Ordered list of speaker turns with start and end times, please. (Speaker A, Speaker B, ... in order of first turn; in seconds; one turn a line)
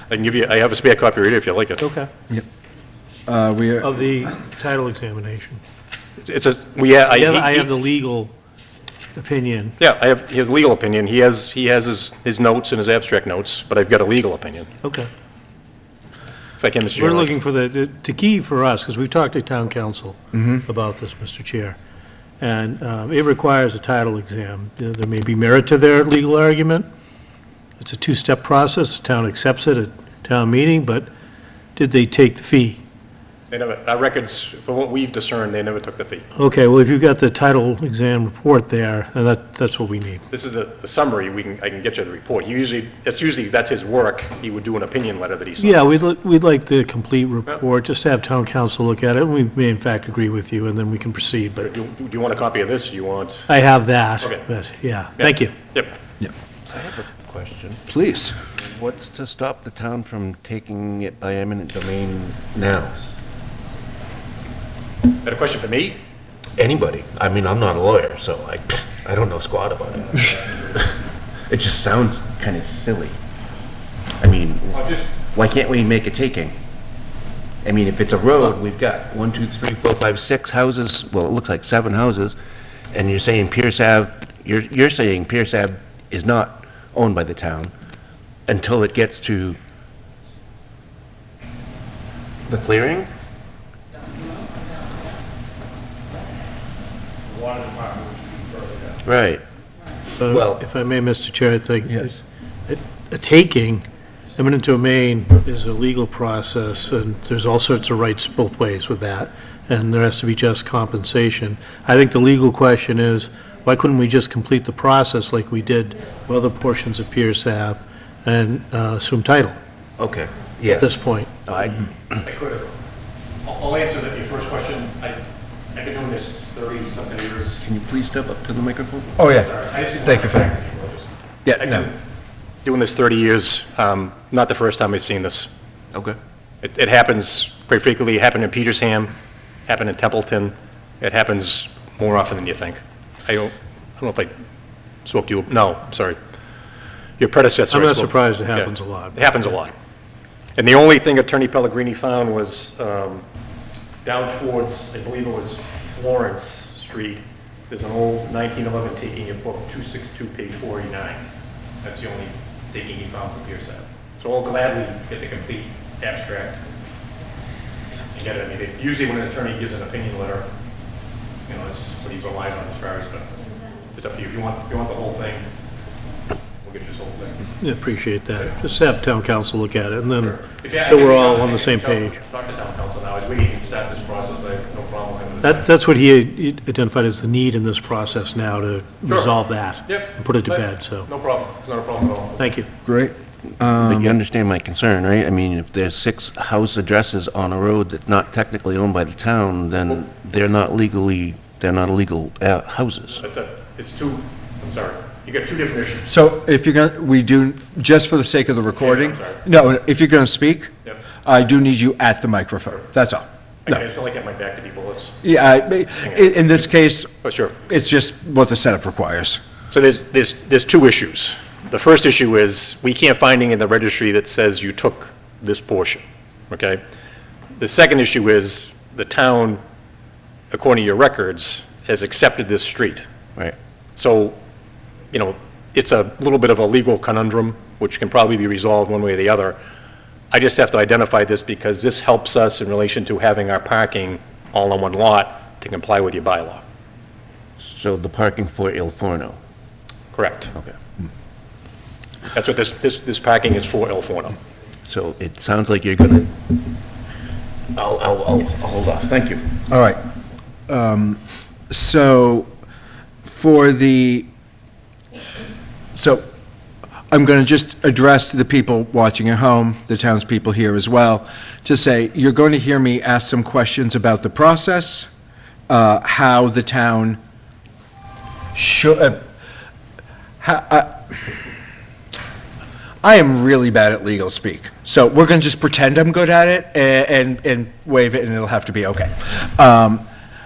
Speaker A: 0.1-1.8
Speaker B: 1.8-2.1
Speaker C: 3.3-4.0
Speaker B: 3.8-5.6
Speaker A: 6.2-7.7
Speaker B: 7.1-8.3
Speaker B: 9.2-9.8
Speaker A: 9.8-14.7
Speaker B: 14.8-15.1
Speaker A: 16.6-17.3
Speaker B: 16.9-21.8
Speaker C: 20.3-20.6
Speaker B: 22.4-26.9
Speaker B: 27.8-31.1
Speaker B: 31.8-32.8
Speaker A: 33.5-36.3
Speaker B: 36.3-40.2
Speaker A: 40.3-46.0
Speaker B: 45.6-51.7
Speaker A: 51.6-53.5
Speaker B: 53.5-55.5
Speaker A: 55.2-55.9
Speaker D: 56.7-57.8
Speaker C: 57.9-58.4
Speaker D: 58.5-62.9
Speaker A: 65.2-66.0
Speaker D: 66.6-73.2
Speaker D: 74.2-76.5
Speaker A: 74.7-75.1
Speaker D: 77.6-82.3
Speaker D: 82.9-87.7
Speaker D: 88.5-89.6
Speaker D: 92.5-93.1
Speaker A: 97.3-99.0
Speaker D: 99.0-99.4
Speaker B: 100.2-103.8
Speaker D: 100.3-100.6
Speaker B: 104.3-119.5
Speaker D: 120.0-120.9
Speaker B: 120.7-121.3
Speaker D: 121.5-122.2
Speaker A: 122.2-122.7
Speaker A: 123.4-125.2
Speaker A: 125.7-127.6
Speaker D: 127.6-129.2
Speaker C: 129.2-130.5
Speaker A: 129.2-131.9
Speaker C: 131.4-131.9
Speaker A: 132.6-135.5
Speaker A: 136.6-139.1
Speaker A: 139.7-144.3
Speaker A: 145.0-146.2
Speaker A: 147.2-149.7
Speaker B: 147.7-149.6
Speaker A: 150.6-153.2
Speaker A: 154.0-161.2
Speaker A: 161.8-166.6
Speaker A: 168.1-170.5
Speaker A: 171.4-173.3
Speaker A: 173.9-175.5
Speaker A: 176.6-177.5
Speaker B: 177.6-182.2
Speaker A: 180.4-185.7
Speaker B: 185.4-191.1
Speaker A: 189.1-189.3
Speaker A: 189.8-192.4
Speaker B: 192.4-192.7
Speaker C: 192.8-194.2
Speaker D: 193.8-203.2
Speaker A: 203.1-206.1
Speaker C: 206.1-210.7
Speaker A: 208.8-209.4
Speaker C: 211.2-213.8
Speaker A: 213.7-215.3
Speaker C: 215.2-217.1
Speaker A: 216.0-216.6
Speaker A: 217.2-217.6
Speaker C: 217.6-219.4
Speaker A: 219.7-226.8
Speaker A: 227.6-229.6
Speaker A: 230.5-233.0
Speaker A: 233.9-234.4
Speaker A: 235.1-239.6
Speaker A: 240.3-246.6
Speaker D: 247.6-249.4
Speaker A: 250.1-250.5
Speaker A: 252.3-254.4
Speaker D: 254.9-256.3
Speaker D: 257.7-259.6
Speaker C: 259.7-260.0
Speaker C: 260.7-262.5
Speaker C: 263.2-264.3
Speaker C: 265.9-266.2
Speaker C: 267.1-275.1
Speaker C: 275.7-277.2
Speaker C: 278.5-279.3
Speaker C: 280.4-281.2
Speaker C: 283.0-290.0